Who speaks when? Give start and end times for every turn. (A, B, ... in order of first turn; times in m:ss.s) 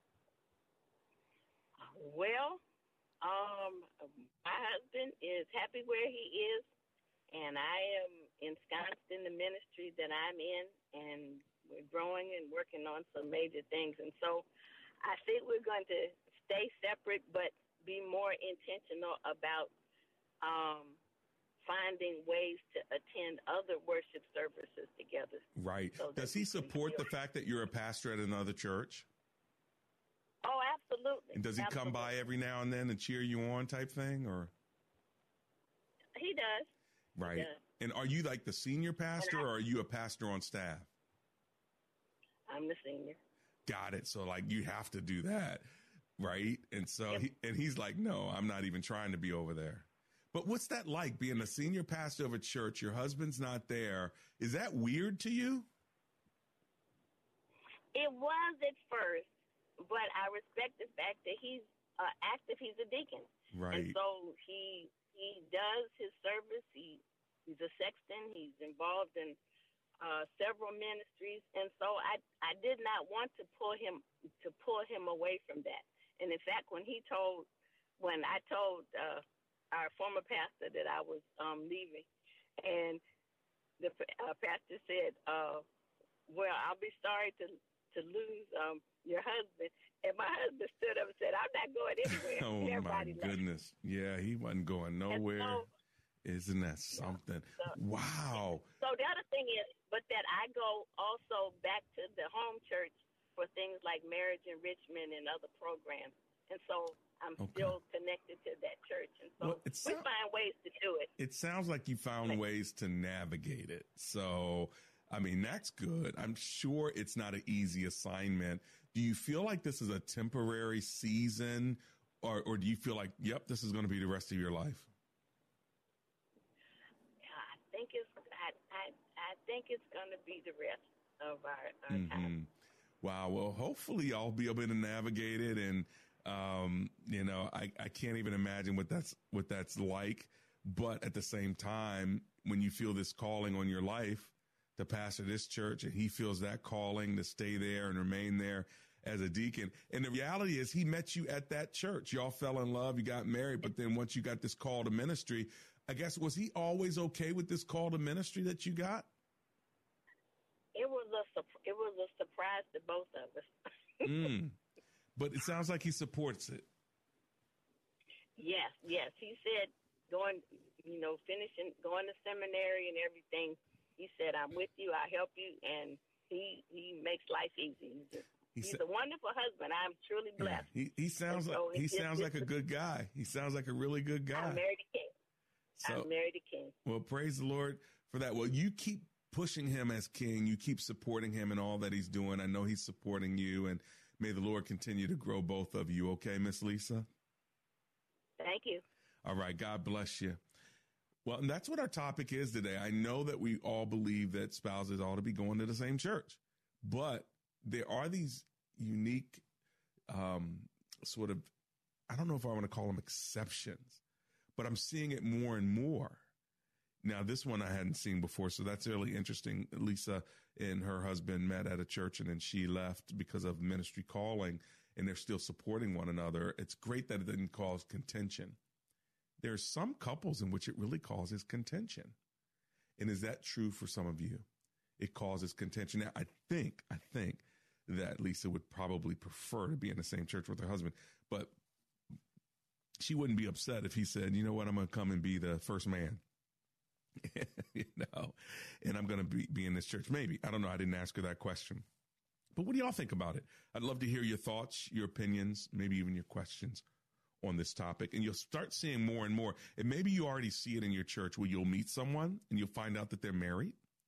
0:01.8-0:02.6 A
0:03.2-0:06.6 A
0:07.3-0:14.5 A
0:15.0-0:19.7 A
0:20.4-0:21.0 A
0:21.6-0:25.4 A
0:25.5-0:29.1 B
0:26.0-0:27.1 A
0:30.4-0:32.1 A
0:31.3-0:34.5 B
0:36.2-0:36.7 A
0:37.2-0:40.9 B
0:37.2-0:37.6 A
0:42.5-0:43.2 A
0:43.6-0:45.6 B
0:46.2-0:55.7 B
0:57.9-0:59.3 A
0:59.8-1:09.4 A
1:03.5-1:04.0 B
1:10.0-1:17.5 A
1:18.0-1:22.1 A
1:22.6-1:23.0 A
1:23.8-1:25.6 A
1:26.3-1:33.4 A
1:32.0-1:35.6 B
1:35.1-1:35.7 A
1:36.2-1:38.7 B
1:37.0-1:37.7 A
1:38.8-1:51.1 A
1:47.4-1:47.8 B
1:49.4-1:50.1 B
1:51.2-2:04.9 B
2:07.2-2:12.3 A
2:11.9-2:39.1 B
2:40.7-2:43.5 A
2:44.0-2:44.6 B
2:45.2-2:46.7 B
2:48.4-3:00.7 A
2:58.5-2:58.8 B
3:00.4-3:04.6 B
3:01.3-3:02.5 A
3:04.3-3:05.1 A
3:05.8-3:06.1 B
3:05.8-3:06.7 A
3:06.8-3:17.1 B
3:18.4-3:18.8 A
3:19.2-3:20.4 B
3:21.2-3:29.4 B
3:30.1-3:31.5 B
3:32.1-3:34.0 B
3:34.6-3:36.2 B
3:37.0-3:48.6 B
3:49.4-3:52.2 B
3:53.0-3:54.4 B
3:55.0-4:01.5 B
4:03.0-4:06.2 B
4:07.2-4:11.8 B
4:12.5-4:16.8 B
4:17.4-4:23.8 B